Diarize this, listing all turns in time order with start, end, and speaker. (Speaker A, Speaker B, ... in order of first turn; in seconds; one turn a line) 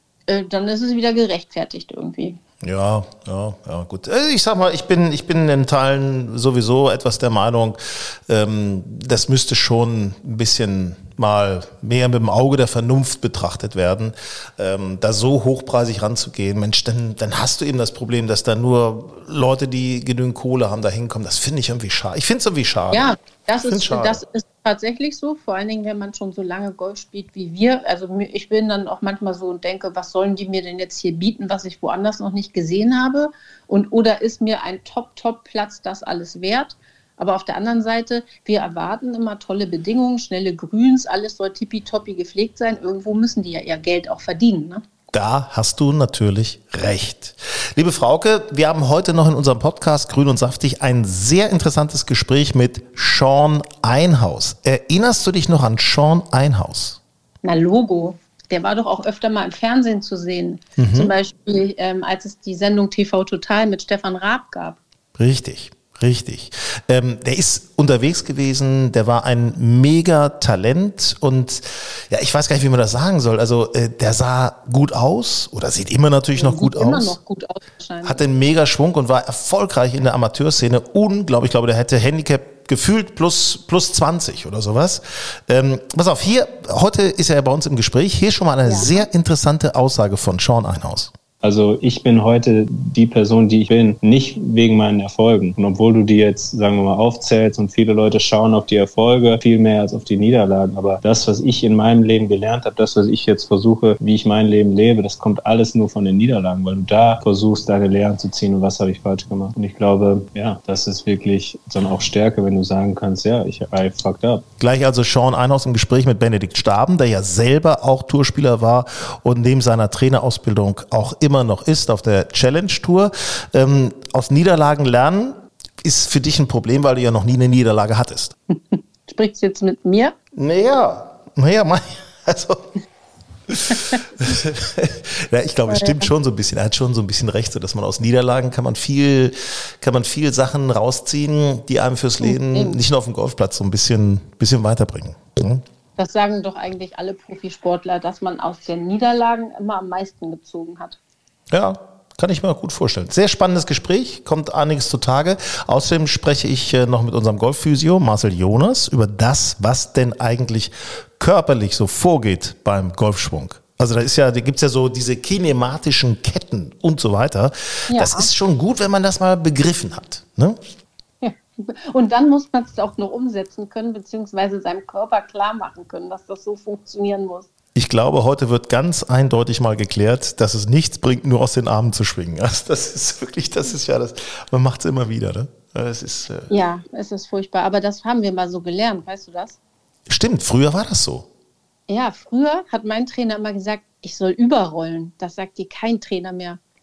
Speaker A: 0.3-2.4
Speaker B: 2.6-24.2
Speaker A: 22.9-44.8
Speaker B: 45.1-57.0
Speaker A: 57.4-64.8
Speaker B: 60.8-61.1
Speaker B: 65.2-77.2
Speaker A: 76.4-78.2
Speaker B: 78.0-91.1
Speaker A: 88.7-89.0
Speaker C: 91.4-114.4
Speaker B: 114.6-128.3
Speaker A: 128.5-130.1
Speaker B: 130.3-132.7
Speaker B: 133.5-145.6
Speaker A: 135.7-136.1
Speaker A: 142.2-142.8
Speaker A: 146.0-151.0
Speaker B: 151.5-170.6
Speaker A: 167.9-168.3
Speaker A: 171.2-177.5
Speaker B: 177.7-186.6
Speaker A: 186.5-189.6
Speaker B: 190.1-191.3
Speaker A: 191.9-196.6